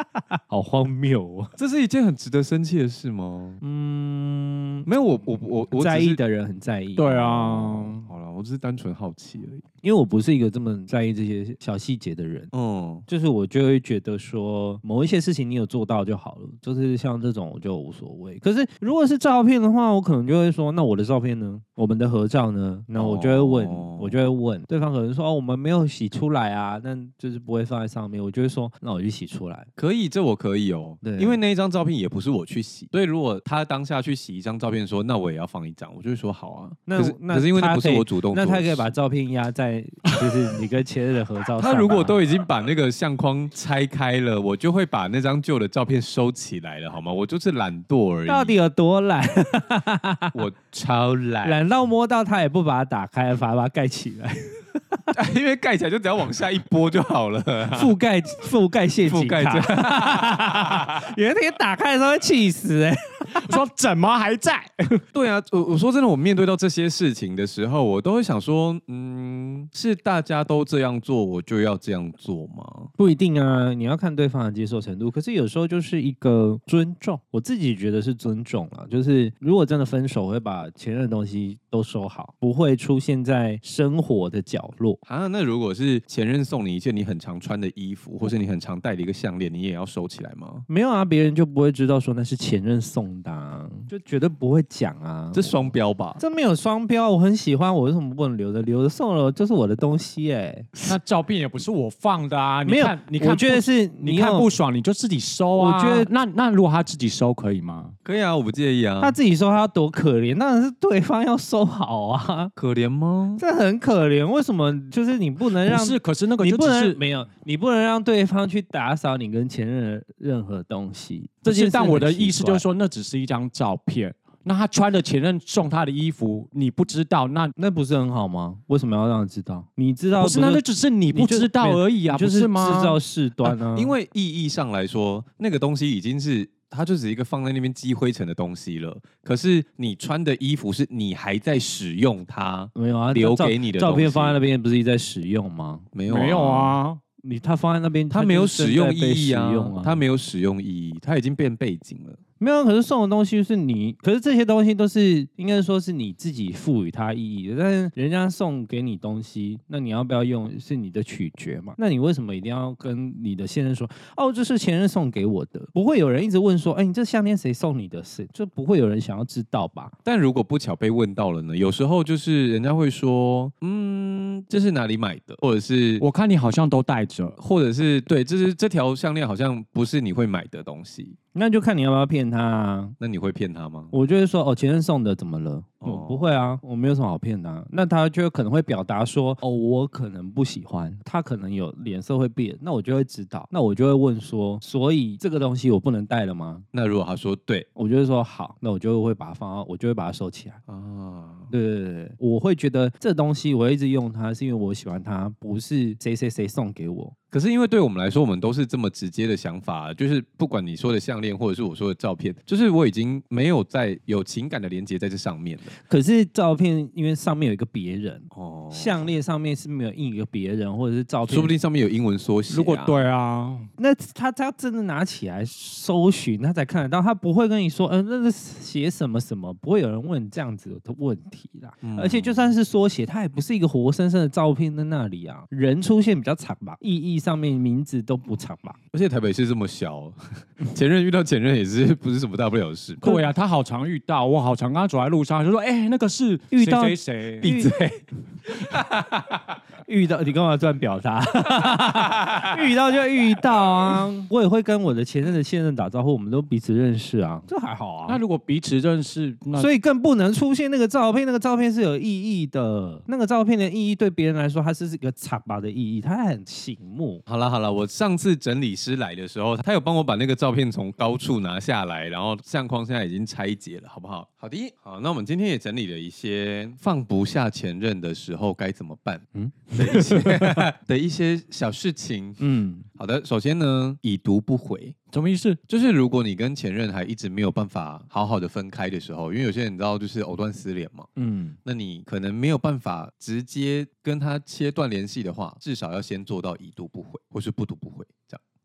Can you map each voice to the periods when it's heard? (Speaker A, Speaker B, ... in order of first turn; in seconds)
Speaker A: 0.4-1.5, 3.6-4.9, 5.7-7.9, 9.8-12.5, 13.1-29.7, 31.0-31.4, 36.9-42.2, 48.3-50.4, 51.4-55.1, 57.7-63.6, 73.0-85.0, 90.7-100.7, 102.7-104.5, 105.5-106.1, 109.0-112.5, 113.4-122.7, 127.6-133.9, 142.8-145.9, 147.2-150.0, 152.4-169.9, 181.3-183.0, 183.9-196.7, 197.8-200.6, 201.5-207.1, 215.7-221.6, 223.8-238.8, 243.0-243.3, 246.5-247.7, 249.8-258.2, 259.6-267.2, 279.4-280.7, 282.4-282.9, 291.2-291.6
Speaker B: 1.6-3.6, 4.9-6.2, 8.0-9.6, 12.5-13.1, 23.0-24.2, 29.8-38.9, 41.6-48.6, 50.3-51.6, 55.1-57.9, 59.1-61.0, 65.1-72.9, 85.1-90.7, 95.3-96.2, 108.0-109.2, 112.6-113.4, 133.7-144.4, 145.9-146.8, 148.1-152.2, 170.1-176.1, 177.4-181.2, 183.0-183.9, 185.8-186.3, 196.7-197.7, 200.7-201.5, 207.3-215.7, 218.3-219.1, 221.3-223.0, 231.8-232.6, 238.9-243.0, 247.4-249.6, 251.7-252.5, 267.3-282.4, 283.0-285.0, 285.7-291.1, 291.6-298.4
Speaker C: 7.0-8.1, 63.4-65.0, 100.8-108.0, 115.6-117.0, 121.4-127.5, 130.2-133.0, 146.1-147.0, 176.0-177.4, 222.5-223.7, 243.0-247.5, 258.1-259.7, 285.1-285.6